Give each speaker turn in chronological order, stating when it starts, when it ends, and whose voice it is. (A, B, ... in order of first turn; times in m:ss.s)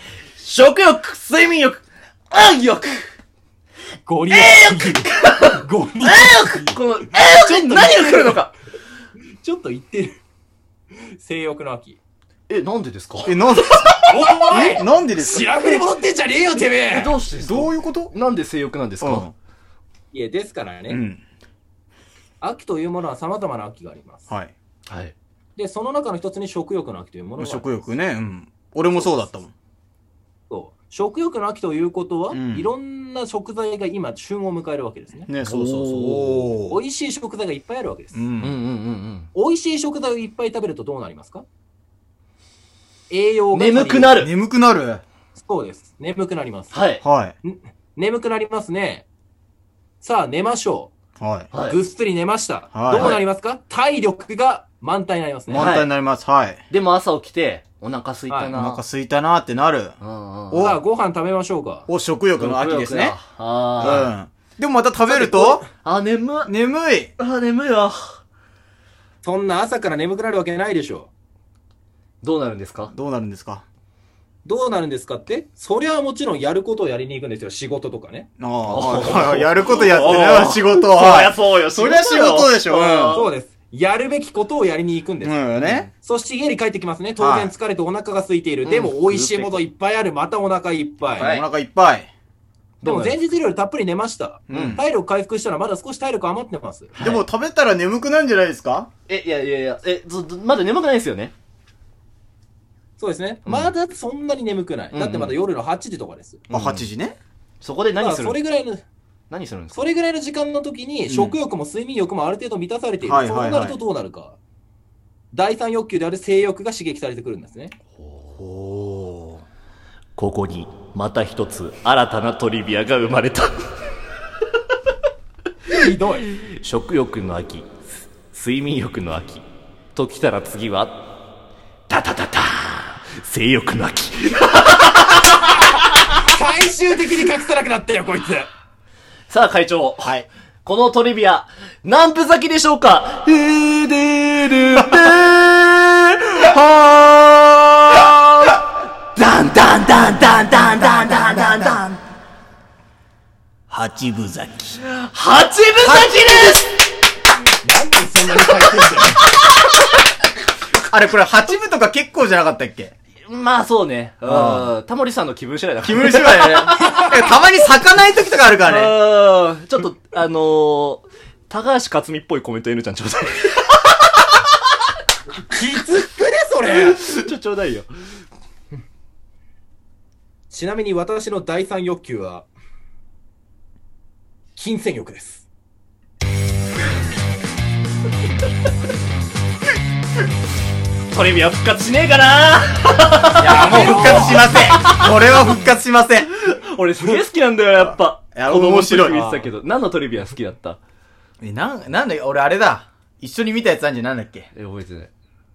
0:00.4-0:03.1 A
0:04.0-0:08.5 B
0:04.3-0:08.5 A
0:09.4-0:10.2 B
0:11.2-0:12.0 B
0:12.5-0:13.4 A
0:13.2-0:15.8 C
0:14.0-0:17.2 B
0:16.9-0:19.2 A
0:17.3-0:18.1 C
0:19.0-0:19.3 C
0:20.1-0:21.0 B
0:20.9-0:21.2 C
0:22.4-0:24.2 B
0:24.9-0:25.1 A
0:25.6-0:27.6 B
0:27.4-0:29.5 C
0:30.5-0:35.3 B
0:32.3-0:32.7 C
0:35.3-0:36.8 C
0:35.4-0:36.5 A
0:36.7-0:38.2 B
0:38.1-0:38.5 C
0:38.4-0:39.3 A
0:39.3-0:41.4 B
0:43.1-0:44.2 B
0:43.5-0:44.3 A
0:44.2-0:45.0 C
0:45.3-0:46.7 B
0:46.7-0:47.0 A
0:47.0-0:47.3 C
0:47.4-0:49.0 B
0:50.0-0:50.9 B
0:51.2-0:51.5 C
0:51.5-0:51.8 A
0:51.7-0:55.7 B
0:52.7-0:53.2 C
0:55.5-0:56.6 C
0:55.6-0:55.9 A
0:56.7-0:58.8 A
0:58.3-0:58.5 B
0:58.5-0:59.9 C
1:00.0-1:00.7 A
1:00.5-1:00.8 C
1:00.6-1:01.9 B
1:01.9-1:03.2 C
1:02.4-1:04.1 A
1:03.8-1:05.6 C
1:05.2-1:05.6 B
1:05.7-1:06.5 A
1:06.4-1:07.1 C
1:07.2-1:08.0 A
1:09.2-1:11.1 B
1:12.2-1:12.9 A
1:12.9-1:13.6 C
1:14.4-1:18.3 B
1:18.4-1:23.2 C
1:18.6-1:23.3 A
1:23.0-1:31.3 B
1:25.2-1:25.9 C
1:25.6-1:25.9 A
1:27.2-1:27.5 C
1:28.6-1:29.6 A
1:31.1-1:31.4 A
1:31.1-1:32.1 C
1:32.8-1:33.2 A
1:32.8-1:36.9 B
1:34.5-1:34.8 C
1:34.5-1:34.8 A
1:37.0-1:37.2 A
1:37.0-1:38.9 C
1:39.1-1:41.3 A
1:43.0-1:46.4 B
1:44.9-1:45.3 A
1:46.5-1:46.8 A
1:46.5-1:47.2 C
1:47.6-1:48.4 A
1:48.0-1:48.8 B
1:49.3-1:49.8 A
1:49.7-1:54.4 B
1:51.1-1:51.4 C
1:53.0-1:53.8 C
1:55.3-1:57.7 B
1:58.0-1:58.4 A
1:58.4-1:59.4 C
2:00.2-2:03.5 A
2:05.7-2:06.3 B
2:06.4-2:07.7 A
2:08.3-2:11.0 A
2:11.9-2:15.9 A
2:15.7-2:18.5 B
2:19.3-2:28.6 A
2:29.1-2:32.0 A
2:30.5-2:31.8 C
2:33.7-2:34.8 C
2:35.0-2:36.7 A
2:35.8-2:36.6 C
2:37.6-2:39.3 B
2:40.9-2:42.9 C
2:43.3-2:46.8 A
2:44.2-2:44.7 C
2:45.8-2:48.9 C
2:46.7-2:47.3 B
2:48.6-2:54.3 A
2:55.4-2:57.0 B
2:56.8-2:57.9 A
3:00.5-3:02.5 B
3:04.6-3:05.4 B
3:11.1-3:15.4 A
3:13.4-3:16.3 C
3:13.4-3:14.5 B
3:16.4-3:20.8 A
3:17.8-3:19.3 C
3:19.2-3:19.4 B
3:21.4-3:24.5 C
3:24.5-3:25.1 A